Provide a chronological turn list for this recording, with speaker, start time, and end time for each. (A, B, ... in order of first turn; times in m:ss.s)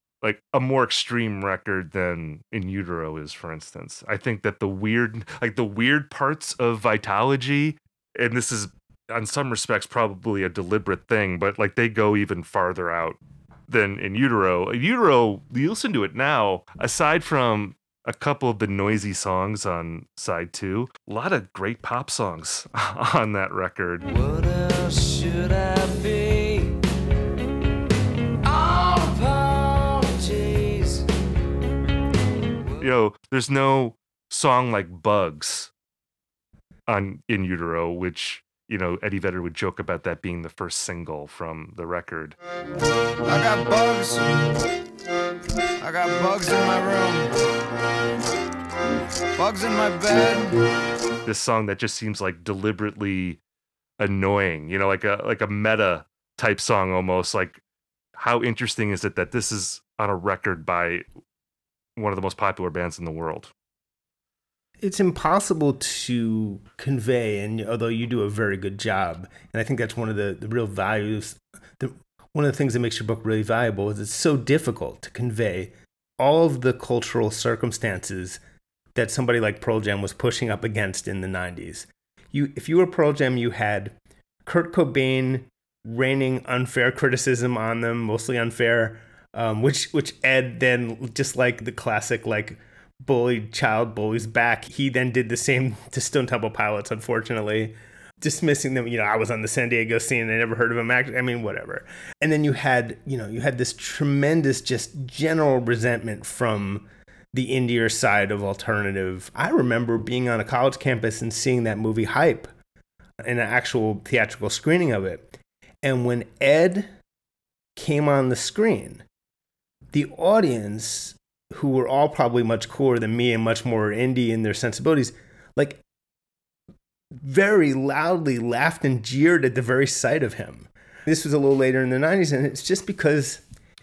0:00.2-0:24.0 A
0:24.0-0:26.8 B
0:28.4-0:31.1 B
0:32.8-0:35.7 A
0:36.9-0:42.4 A
0:43.2-0:44.6 B
0:45.8-0:47.3 B
0:49.4-0:50.6 B
0:51.2-0:53.4 A
0:54.0-0:57.6 A
0:58.2-1:01.1 A
1:02.0-1:03.5 A
1:04.8-1:18.4 C
1:19.0-1:52.5 C
1:53.2-1:56.9 C
1:57.8-1:59.0 C
1:59.9-2:05.8 C
2:07.2-2:13.4 C